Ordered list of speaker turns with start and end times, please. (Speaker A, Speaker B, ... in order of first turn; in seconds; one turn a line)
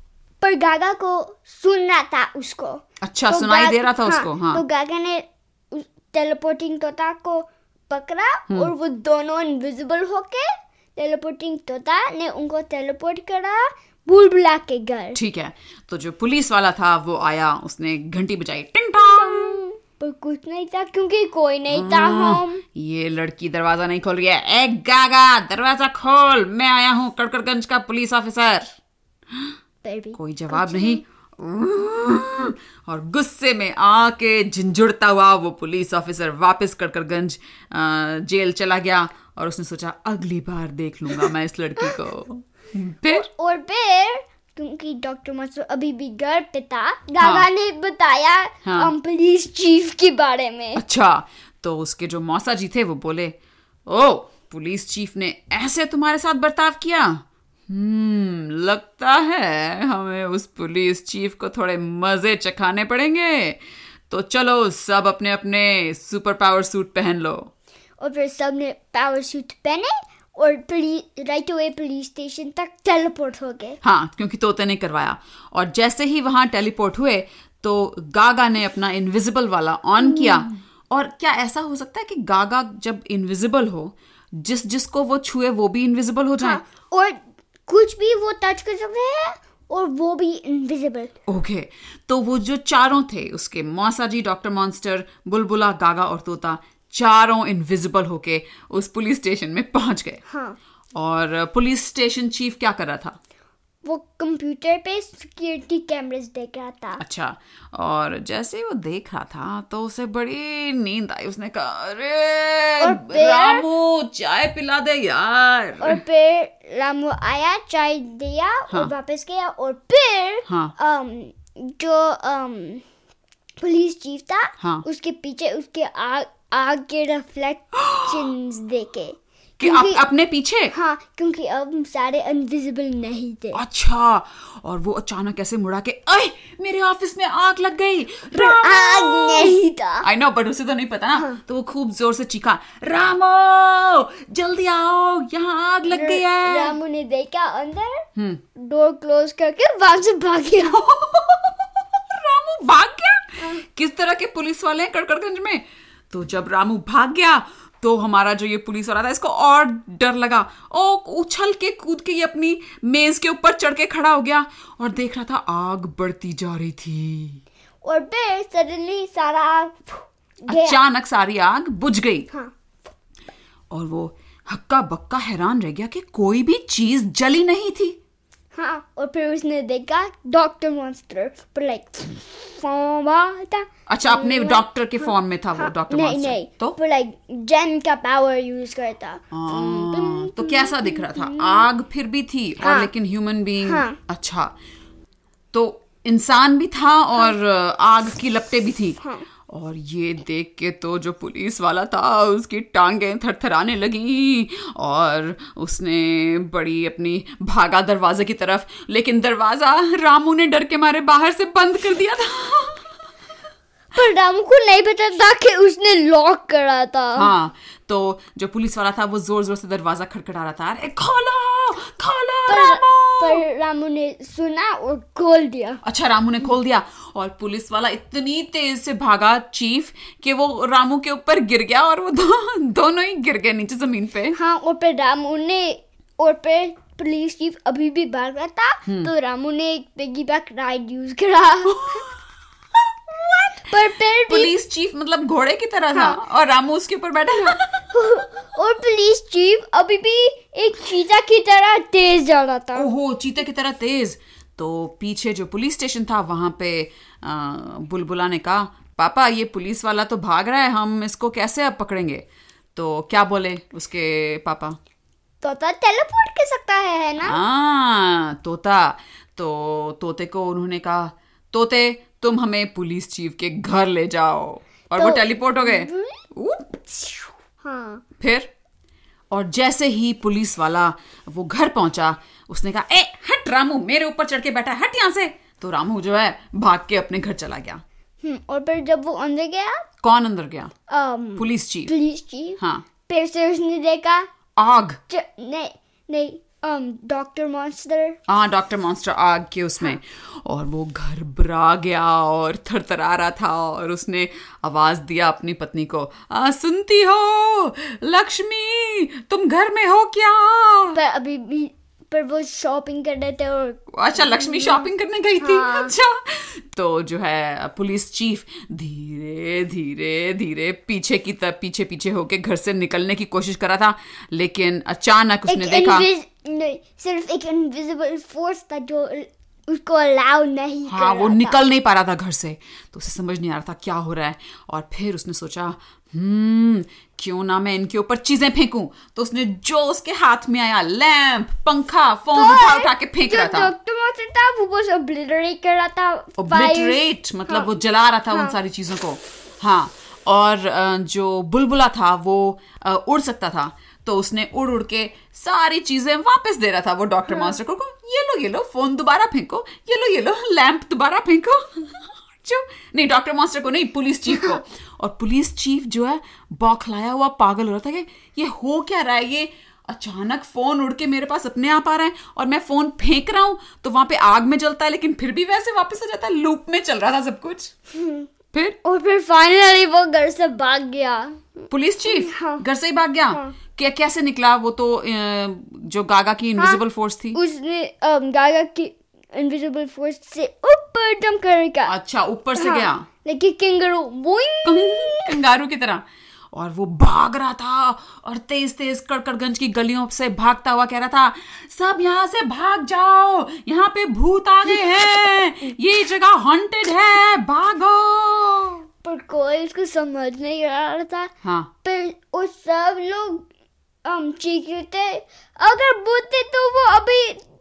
Speaker A: 0.4-15.2
Speaker B: 3.0-4.6
Speaker B: 15.1-19.6
Speaker A: 19.0-22.6
Speaker B: 21.7-28.7
Speaker A: 29.8-31.0
Speaker B: 30.1-43.3
Speaker A: 43.1-50.8
Speaker B: 47.2-47.5
Speaker B: 48.6-48.9
Speaker B: 50.7-67.5
Speaker A: 68.0-73.8
Speaker B: 73.8-86.6
Speaker A: 80.0-80.4
Speaker A: 86.4-91.1
Speaker B: 91.3-100.2
Speaker A: 100.3-100.6
Speaker B: 100.9-103.2
Speaker A: 103.8-107.0
Speaker B: 107.0-116.0
Speaker A: 112.8-113.6
Speaker A: 115.8-122.8
Speaker B: 120.5-120.7
Speaker A: 123.6-130.0
Speaker B: 127.8-128.2
Speaker B: 129.6-130.7
Speaker A: 130.7-133.6
Speaker B: 133.5-146.8
Speaker A: 138.3-140.1
Speaker A: 141.1-141.4
Speaker A: 145.9-150.8
Speaker B: 148.2-148.4
Speaker B: 150.6-167.4
Speaker A: 167.8-170.8
Speaker B: 170.5-172.3
Speaker B: 173.7-178.0
Speaker A: 178.5-191.7
Speaker B: 183.9-186.8
Speaker B: 189.3-194.5
Speaker A: 192.6-192.9
Speaker A: 193.6-194.0
Speaker B: 195.5-212.9
Speaker A: 199.0-199.2
Speaker A: 213.9-217.3
Speaker B: 217.2-223.4
Speaker A: 222.5-225.8
Speaker B: 225.8-234.4
Speaker A: 234.3-242.1
Speaker B: 241.7-242.1
Speaker B: 243.1-243.7
Speaker A: 243.6-244.5
Speaker B: 244.3-247.8
Speaker A: 245.9-246.2
Speaker A: 247.3-252.9
Speaker B: 252.7-264.8
Speaker A: 265.4-267.4
Speaker B: 267.2-277.3
Speaker A: 275.0-276.2
Speaker A: 277.6-278.0
Speaker B: 278.2-278.5
Speaker B: 279.3-287.8
Speaker A: 288.2-289.8
Speaker B: 290.0-290.7
Speaker A: 290.9-294.3
Speaker B: 291.4-291.9
Speaker B: 292.6-292.9
Speaker B: 294.6-295.0
Speaker A: 295.1-298.2
Speaker B: 298.3-311.0
Speaker A: 310.9-314.9
Speaker B: 313.9-326.1
Speaker A: 315.4-315.9
Speaker A: 325.5-331.6
Speaker B: 330.9-343.7
Speaker A: 342.3-347.7
Speaker B: 346.4-377.7
Speaker A: 357.3-357.5
Speaker A: 377.9-378.3
Speaker A: 378.8-382.6
Speaker B: 381.7-387.4
Speaker A: 383.3-383.6
Speaker A: 386.6-386.8
Speaker A: 387.3-391.9
Speaker B: 391.9-393.1
Speaker A: 392.6-395.4
Speaker B: 394.6-408.8
Speaker A: 409.0-411.3
Speaker B: 411.4-411.7
Speaker A: 411.8-413.5
Speaker A: 414.0-417.4